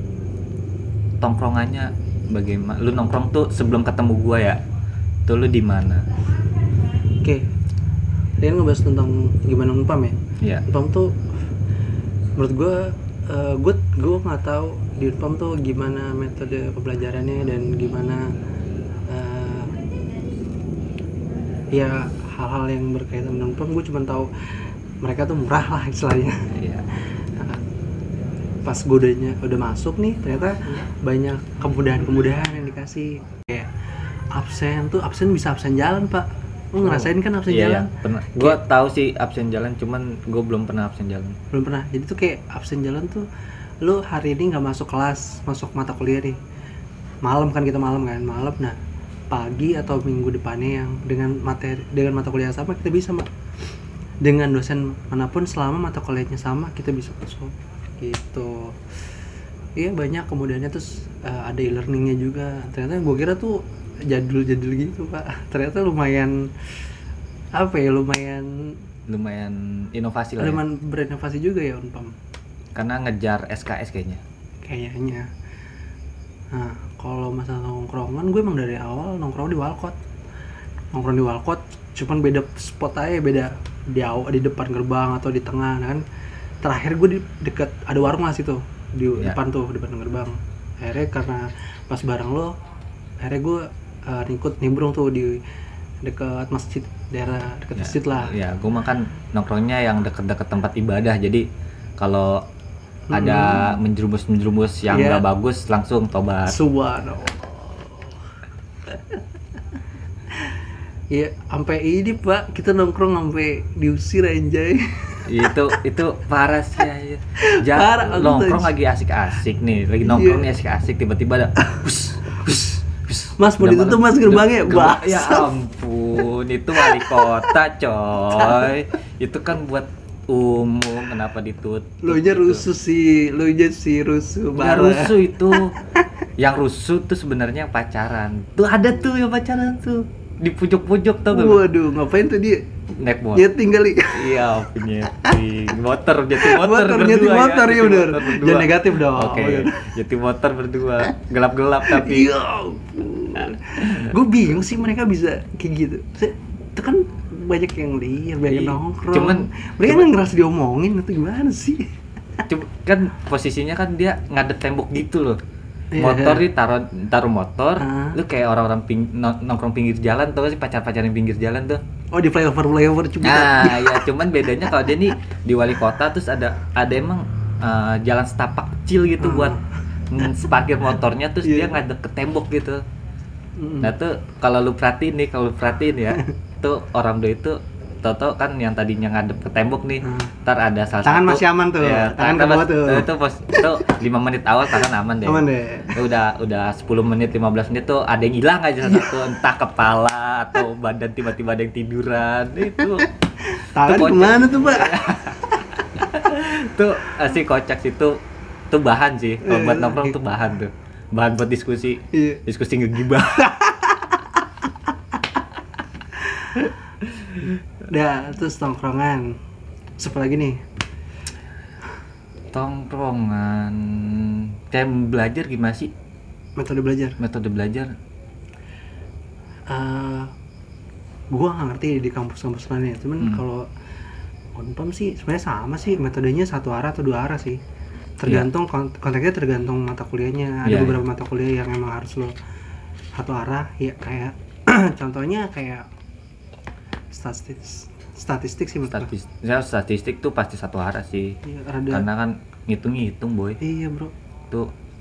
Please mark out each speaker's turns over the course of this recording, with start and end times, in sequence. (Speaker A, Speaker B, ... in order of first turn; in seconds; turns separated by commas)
Speaker A: 1.2-4.6, Speaker A: 5.3-6.1, Speaker B: 8.4-10.2, Speaker B: 10.7-11.2, Speaker B: 12.4-18.3, Speaker B: 19.1-19.8, Speaker B: 21.7-26.4, Speaker A: 26.5-26.9, Speaker B: 27.2-27.6, Speaker B: 28.6-33.7, Speaker B: 34.4-38.6, Speaker A: 36.8-41.3, Speaker B: 41.5-43.3, Speaker B: 43.8-46.4, Speaker B: 47.2-48.8, Speaker B: 49.3-53.3, Speaker B: 54.2-58.8, Speaker B: 59.8-66.7, Speaker B: 67.5-68.7, Speaker A: 69.1-70.6, Speaker B: 70.4-72.1, Speaker A: 72.8-74.2, Speaker B: 74.6-75.3, Speaker B: 76.5-80.0, Speaker B: 80.9-86.0, Speaker B: 86.6-92.5, Speaker B: 93.2-95.4, Speaker B: 96.0-98.3, Speaker A: 97.8-101.5, Speaker A: 102.0-102.4, Speaker B: 103.1-103.7, Speaker A: 103.1-106.6, Speaker B: 104.9-105.2, Speaker B: 106.5-108.1, Speaker B: 111.1-115.5, Speaker A: 115.2-132.6, Speaker B: 117.5-118.7, Speaker B: 120.0-120.5, Speaker B: 123.4-125.5, Speaker B: 126.8-127.5, Speaker B: 128.4-128.7, Speaker B: 132.0-135.5, Speaker A: 134.5-135.7, Speaker A: 136.4-141.6, Speaker B: 141.3-142.6, Speaker A: 143.0-143.5, Speaker B: 143.3-144.4, Speaker A: 144.1-152.3, Speaker B: 146.4-149.9, Speaker B: 151.8-161.8, Speaker A: 153.7-154.2, Speaker A: 158.5-160.1, Speaker A: 162.5-165.4, Speaker B: 165.9-166.4, Speaker A: 166.0-171.8, Speaker B: 167.8-168.2, Speaker B: 172.1-174.1, Speaker A: 173.2-179.6, Speaker B: 179.2-179.6, Speaker A: 180.1-182.8, Speaker B: 181.4-181.8, Speaker B: 183.6-184.0, Speaker A: 183.8-203.1, Speaker B: 190.0-190.3, Speaker B: 191.0-193.9, Speaker B: 194.8-196.0, Speaker B: 198.8-199.1, Speaker B: 203.5-205.1, Speaker A: 203.8-208.1, Speaker A: 208.7-213.5, Speaker B: 209.4-210.2, Speaker B: 212.1-212.4, Speaker B: 213.5-214.2, Speaker B: 216.4-216.6, Speaker B: 217.9-219.3, Speaker B: 220.0-220.6, Speaker A: 222.5-225.9, Speaker B: 226.6-227.2, Speaker A: 227.2-227.9, Speaker B: 229.7-230.3, Speaker B: 231.3-233.7, Speaker B: 234.6-237.6, Speaker B: 238.2-242.3, Speaker A: 240.6-241.0, Speaker B: 243.1-245.9, Speaker B: 247.1-249.1, Speaker A: 248.9-251.4, Speaker B: 251.4-252.1, Speaker A: 251.9-253.6, Speaker B: 253.6-254.1